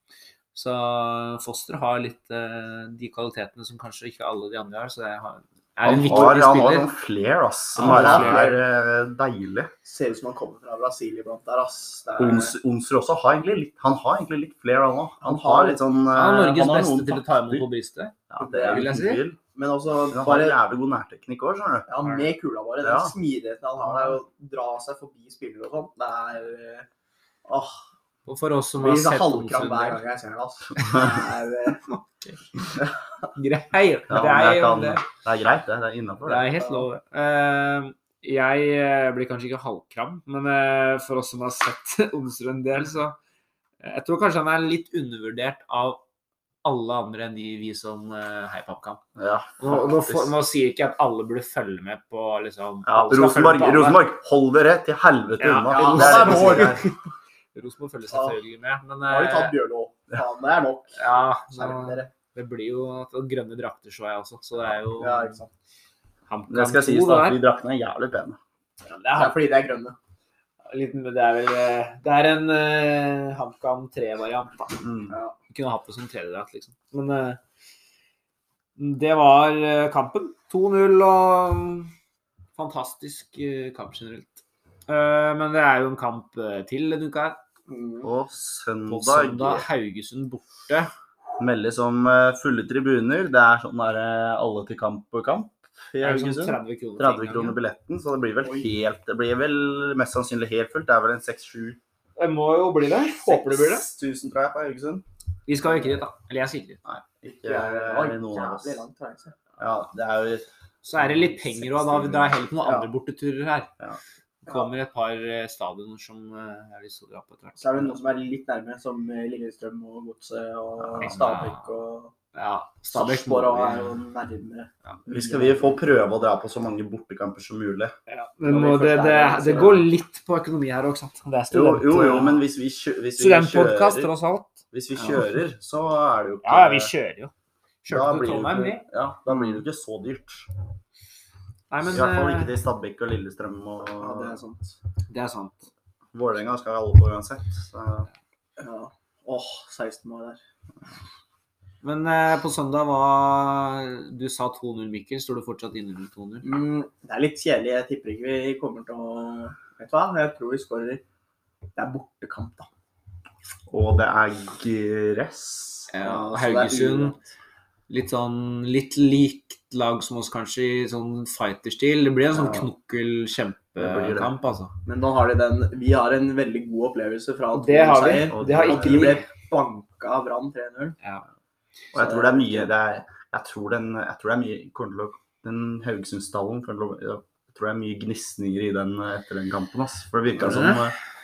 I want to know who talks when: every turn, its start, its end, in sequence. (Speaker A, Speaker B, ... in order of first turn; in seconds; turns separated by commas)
Speaker A: 0.5-6.9, Speaker B: 5.8-9.7, Speaker A: 7.8-8.6, Speaker C: 7.8-8.5, Speaker C: 9.8-12.5, Speaker B: 12.2-17.7, Speaker C: 15.2-15.8, Speaker A: 16.1-19.2, Speaker B: 18.3-19.4, Speaker C: 18.4-18.9, Speaker C: 19.5-20.6, Speaker B: 20.1-21.9, Speaker C: 21.9-26.9, Speaker A: 22.0-22.3, Speaker B: 22.8-23.1, Speaker C: 27.5-27.8, Speaker A: 28.3-30.0, Speaker C: 28.8-31.8, Speaker A: 30.8-31.1, Speaker A: 31.8-32.6, Speaker A: 33.3-35.1, Speaker B: 34.1-36.6, Speaker A: 36.2-43.2, Speaker C: 36.6-36.9, Speaker A: 43.8-46.0, Speaker A: 46.6-49.0, Speaker B: 49.2-50.4, Speaker A: 49.6-54.1, Speaker B: 52.9-56.9, Speaker A: 55.4-57.0, Speaker C: 55.7-56.8, Speaker A: 57.5-59.6, Speaker C: 58.1-58.4, Speaker C: 59.0-62.1, Speaker A: 61.0-65.4, Speaker C: 65.0-65.5, Speaker A: 66.3-67.4, Speaker B: 66.5-68.4, Speaker A: 68.9-69.4, Speaker C: 69.1-70.0, Speaker A: 70.7-74.8, Speaker B: 74.8-75.1, Speaker C: 75.1-75.4, Speaker A: 75.5-77.4, Speaker A: 78.8-81.9, Speaker A: 82.6-87.4, Speaker C: 87.7-88.1, Speaker B: 88.0-89.7, Speaker A: 88.9-90.9, Speaker B: 91.4-101.8, Speaker A: 96.0-97.6, Speaker C: 98.4-98.7, Speaker A: 102.2-103.8, Speaker B: 103.3-105.0, Speaker A: 105.5-106.8, Speaker B: 106.8-108.8, Speaker C: 107.4-109.5, Speaker B: 109.6-112.3, Speaker A: 110.8-113.7, Speaker C: 112.6-112.9, Speaker A: 114.5-117.7, Speaker C: 117.6-122.1, Speaker B: 120.8-121.2, Speaker A: 121.0-121.8, Speaker A: 122.3-124.0, Speaker C: 122.9-125.8, Speaker B: 125.1-128.0, Speaker A: 128.1-132.4, Speaker C: 128.5-129.8, Speaker B: 129.5-129.8, Speaker B: 131.5-134.1, Speaker A: 133.2-134.6, Speaker B: 134.7-136.9, Speaker A: 136.4-137.3, Speaker A: 137.8-138.9, Speaker B: 137.9-140.5, Speaker C: 139.3-139.6, Speaker A: 141.7-142.6, Speaker B: 141.8-144.4, Speaker C: 144.0-144.8, Speaker A: 145.1-145.7, Speaker B: 146.1-148.1, Speaker C: 148.6-150.4, Speaker A: 151.8-156.5, Speaker C: 156.4-161.0, Speaker C: 161.8-162.7, Speaker B: 163.7-165.9, Speaker A: 165.9-167.2, Speaker C: 166.0-167.2, Speaker A: 167.9-174.7, Speaker B: 173.8-174.3, Speaker C: 174.8-181.0, Speaker A: 177.5-179.3, Speaker B: 178.3-179.2, Speaker B: 181.9-191.0, Speaker C: 181.9-182.7, Speaker A: 190.4-190.9